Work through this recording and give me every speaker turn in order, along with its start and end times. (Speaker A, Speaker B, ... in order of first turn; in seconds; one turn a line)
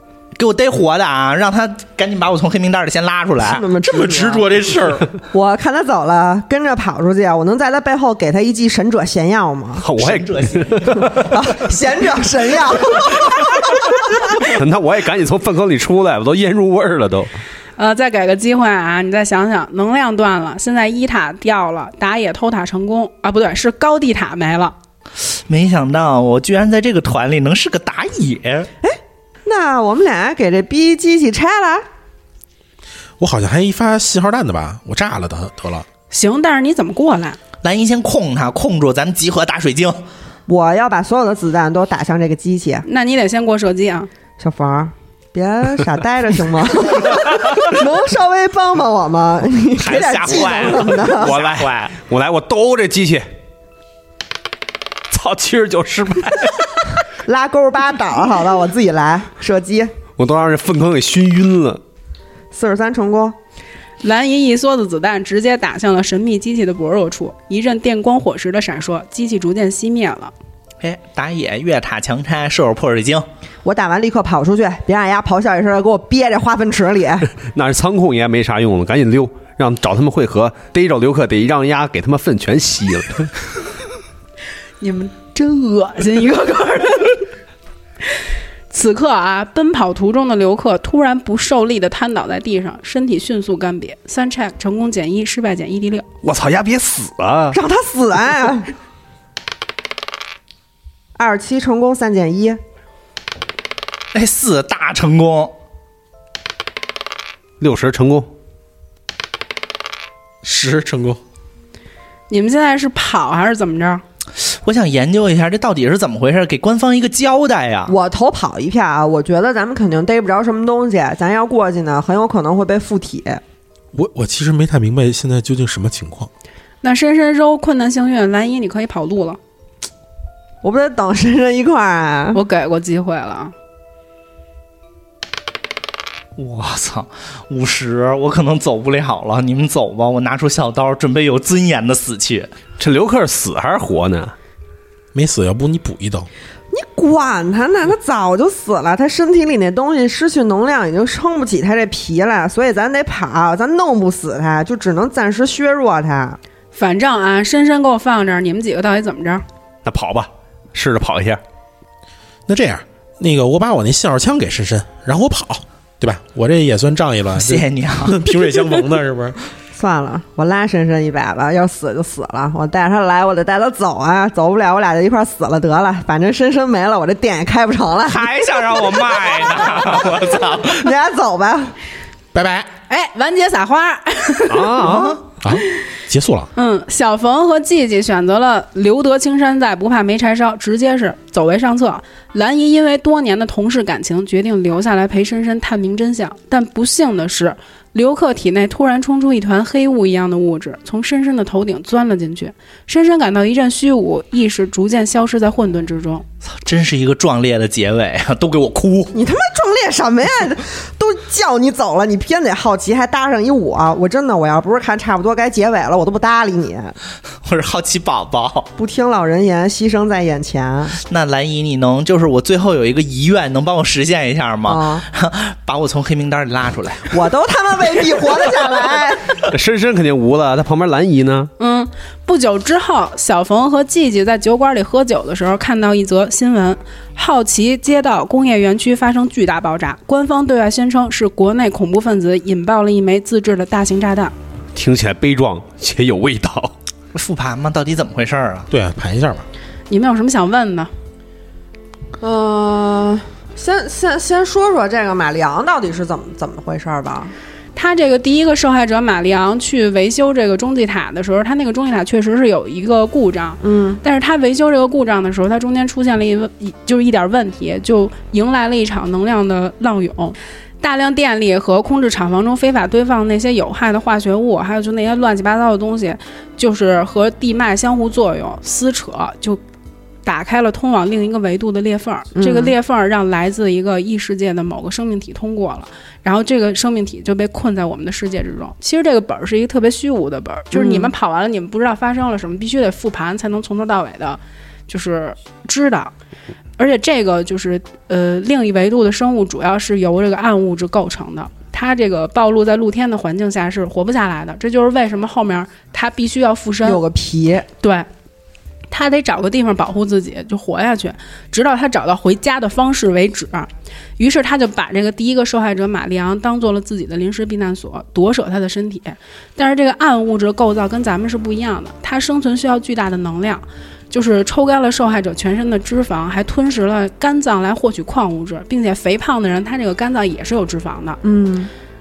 Speaker A: 0.3-3.6
Speaker B: 3.4-4.5
Speaker C: 3.9-5.1
Speaker B: 5.3-9.8
Speaker D: 9.8-11.2
Speaker A: 9.9-11.2
Speaker B: 11.1-14.2
Speaker D: 14.5-17.3
Speaker E: 17.8-24.7
Speaker A: 25.5-28.7
Speaker B: 28.8-31.8
Speaker C: 33.2-35.9
Speaker E: 36.1-37.4
Speaker A: 37.6-40.0
Speaker B: 40.5-42.8
Speaker E: 42.8-44.1
Speaker B: 44.4-51.4
Speaker A: 49.8-51.9
Speaker D: 50.0-53.3
Speaker D: 55.1-56.9
Speaker B: 57.2-59.9
Speaker D: 60.2-61.8
Speaker B: 62.5-63.4
Speaker E: 64.0-70.3
Speaker A: 70.8-73.2
Speaker B: 73.6-77.3
Speaker D: 77.5-83.3
Speaker E: 84.8-87.2
Speaker E: 88.7-96.0
Speaker D: 96.2-97.6
Speaker B: 97.5-98.7
Speaker B: 101.2-102.6
Speaker A: 104.1-105.5
Speaker D: 107.6-108.3
Speaker C: 110.4-111.2
Speaker E: 112.3-114.0
Speaker A: 114.4-117.9
Speaker B: 117.9-123.4
Speaker C: 123.9-126.3
Speaker E: 126.8-129.4
Speaker B: 130.6-132.4
Speaker E: 132.3-133.5
Speaker A: 136.4-142.5
Speaker D: 142.8-144.3
Speaker C: 145.1-146.3
Speaker B: 146.7-156.4
Speaker E: 156.7-159.4
Speaker D: 159.8-161.4
Speaker C: 162.5-169.3
Speaker A: 167.3-168.2
Speaker B: 169.7-178.3
Speaker A: 178.1-180.9
Speaker B: 180.7-181.7
Speaker C: 182.3-182.7
Speaker E: 182.9-184.9
Speaker D: 184.5-185.2
Speaker A: 184.8-185.2
Speaker C: 185.4-186.5
Speaker E: 186.5-206.2
Speaker A: 206.5-209.1
Speaker B: 209.1-216.9
Speaker A: 217.4-218.7
Speaker B: 218.8-221.0
Speaker A: 221.1-227.1
Speaker B: 224.7-225.0
Speaker B: 227.1-229.4
Speaker D: 229.5-231.5
Speaker E: 231.6-244.3
Speaker D: 244.7-246.7
Speaker A: 247.1-248.7
Speaker C: 248.7-249.4
Speaker E: 249.9-250.9
Speaker B: 252.2-257.3
Speaker E: 257.8-279.6
Speaker B: 263.6-264.0
Speaker E: 280.2-296.1
Speaker B: 282.3-282.7
Speaker B: 290.7-291.1
Speaker E: 296.8-307.0
Speaker B: 306.8-307.7
Speaker E: 307.8-308.1
Speaker E: 308.9-331.2
Speaker B: 331.2-331.7